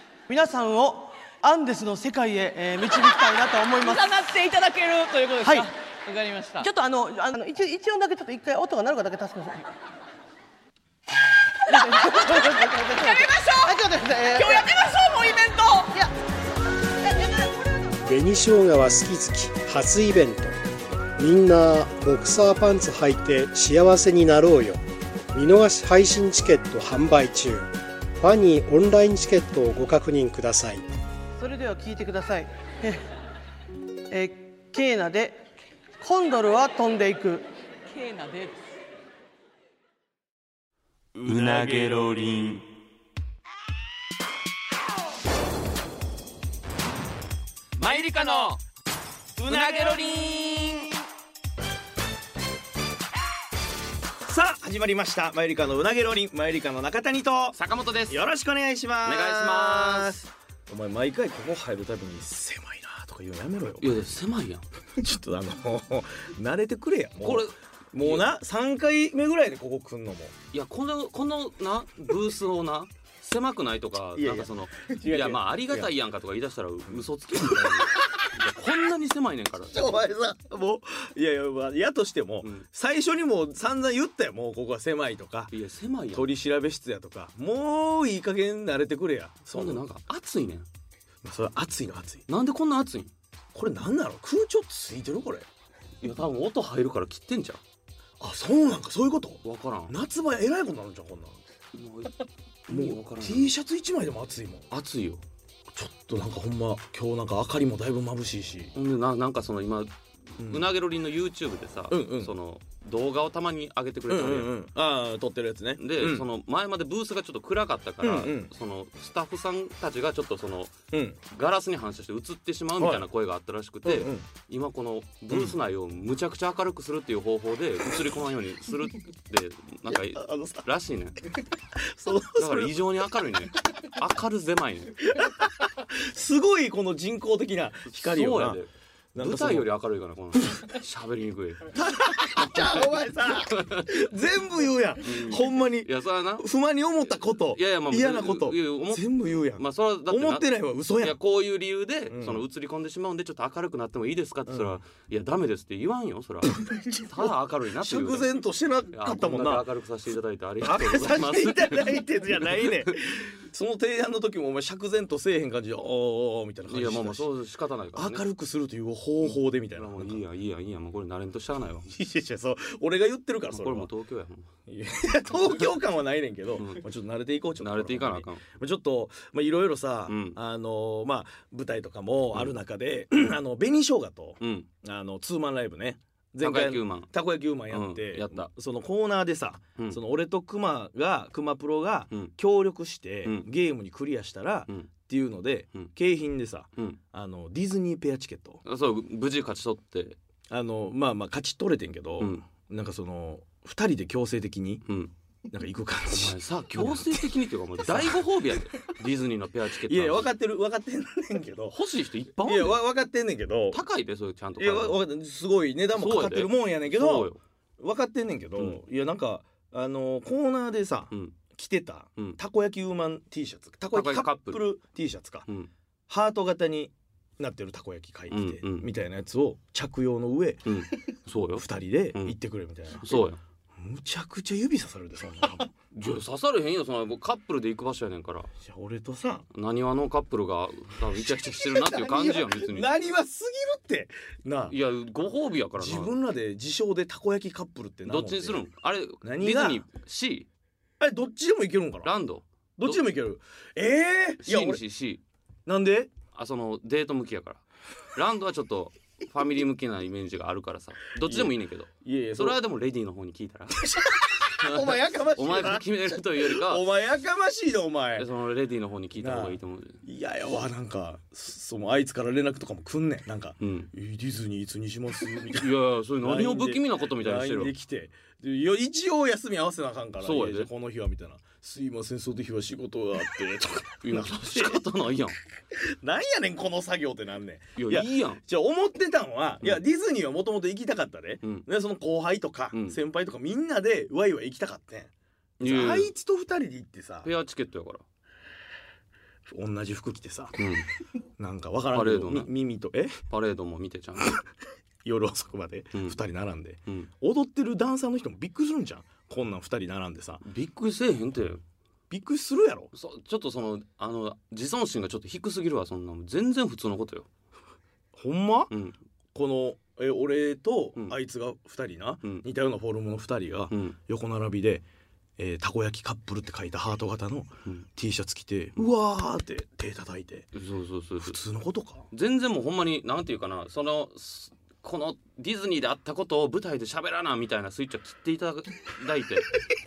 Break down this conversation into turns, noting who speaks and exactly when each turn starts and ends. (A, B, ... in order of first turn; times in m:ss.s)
0:00.3-0:04.1 A
0:03.7-0:06.7 B
0:05.4-0:05.7 A
0:06.6-0:09.7 A
0:11.7-0:16.0 B
0:11.7-0:14.7 A
0:17.1-0:17.5 A
0:18.0-0:20.6 C
0:21.2-0:24.8 C
0:25.3-0:30.8 C
0:31.4-0:33.0 A
0:34.1-0:35.4 A
0:36.0-0:37.5 A
0:37.9-0:38.6 B
0:41.2-0:42.7 D
0:41.4-0:41.8 E
0:47.8-0:48.6 D
0:49.4-0:50.1 E
0:49.4-0:50.9 D
0:54.2-1:04.0 E
0:57.5-0:58.2 D
0:59.0-1:00.2 D
1:03.8-1:04.6 D
1:05.0-1:10.4 E
1:07.2-1:08.3 D
1:10.5-1:20.0 D
1:14.2-1:15.9 E
1:16.9-1:17.9 E
1:19.7-1:25.5 E
1:25.5-1:26.3 D
1:26.1-1:29.8 E
1:29.5-1:30.7 D
1:31.2-1:32.3 E
1:32.3-1:33.1 D
1:33.5-1:35.5 E
1:36.0-1:37.6 D
1:38.2-1:41.4 E
1:39.4-1:40.0 D
1:41.7-1:43.5 D
1:42.7-1:44.7 E
1:44.7-1:45.2 D
1:45.7-1:48.7 E
1:48.8-1:54.5 D
1:50.4-1:50.7 E
1:51.9-1:52.3 E
1:54.1-1:56.3 E
1:55.8-2:00.7 D
1:58.0-1:58.5 E
2:00.9-2:01.2 E
2:01.3-2:11.2 D
2:02.8-2:03.1 E
2:03.8-2:04.3 E
2:05.3-2:05.6 E
2:09.9-2:10.7 E
2:11.8-2:12.8 E
2:12.4-2:15.0 D
2:15.0-2:18.6 E
2:17.9-2:21.8 D
2:19.2-2:19.7 E
2:21.7-2:31.2 E
2:22.3-2:24.1 D
2:25.0-2:26.5 D
2:27.4-2:30.5 D
2:31.0-2:38.3 D
2:32.1-2:32.4 E
2:34.5-2:34.8 E
2:36.6-2:39.7 E
2:38.9-2:42.9 D
2:40.6-2:47.3 E
2:46.7-2:48.2 D
2:47.9-2:50.2 E
2:49.2-2:51.9 D
2:51.9-2:53.9 E
2:53.5-2:54.5 D
2:54.7-3:18.6 E
2:57.6-2:58.4 D
3:00.1-3:00.4 D
3:04.4-3:04.7 D
3:06.4-3:07.1 D
3:07.7-3:08.5 D
3:18.7-3:20.2 D
3:20.5-3:24.8 E
3:25.5-3:28.6 E
3:26.1-3:30.3 D
3:29.9-3:31.8 E
3:31.7-3:32.8 D
3:32.4-3:33.8 E
3:33.7-3:35.0 D
3:34.6-3:45.5 E
3:36.0-3:37.4 D
3:41.1-3:41.4 D
3:43.9-3:44.6 D
3:46.1-3:50.8 E
3:48.3-3:48.9 D
3:50.7-3:52.4 D
3:51.6-3:53.2 E
3:53.0-3:53.4 D
3:53.8-3:55.7 E
3:55.9-3:58.5 D
3:58.6-3:59.4 E
3:59.5-4:02.9 D
4:01.1-4:04.8 E
4:04.7-4:06.2 D
4:05.8-4:08.6 E
4:08.1-4:10.5 D
4:09.2-4:09.8 E
4:11.0-4:12.1 E
4:12.0-4:13.0 D
4:12.8-4:14.8 E
4:14.4-4:15.2 D
4:15.7-4:16.1 E
4:16.3-4:17.6 D
4:18.2-4:23.9 D
4:21.2-4:22.6 E
4:23.7-4:28.3 E
4:24.5-4:26.8 D
4:28.2-4:30.0 D
4:29.2-4:44.8 E
4:33.6-4:33.9 D
4:35.5-4:37.7 D
4:40.2-4:40.7 D
4:44.0-4:45.4 D
4:45.7-4:57.3 E
4:47.8-4:48.4 D
4:52.7-4:53.0 D
4:55.6-4:56.1 D
4:57.2-4:58.0 D
4:59.5-5:00.7 E
5:00.6-5:00.9 D
5:01.4-5:03.2 E
5:01.9-5:02.5 D
5:03.3-5:04.4 D
5:05.0-5:10.4 E
5:10.4-5:11.6 D
5:12.1-5:12.9 E
5:12.9-5:17.3 D
5:18.1-5:18.7 E
5:18.7-5:19.0 D
5:19.4-5:24.8 E
5:23.7-5:24.0 D
5:25.4-5:30.5 E
5:30.6-5:31.4 D
5:31.2-5:32.1 E
5:32.1-5:39.6 D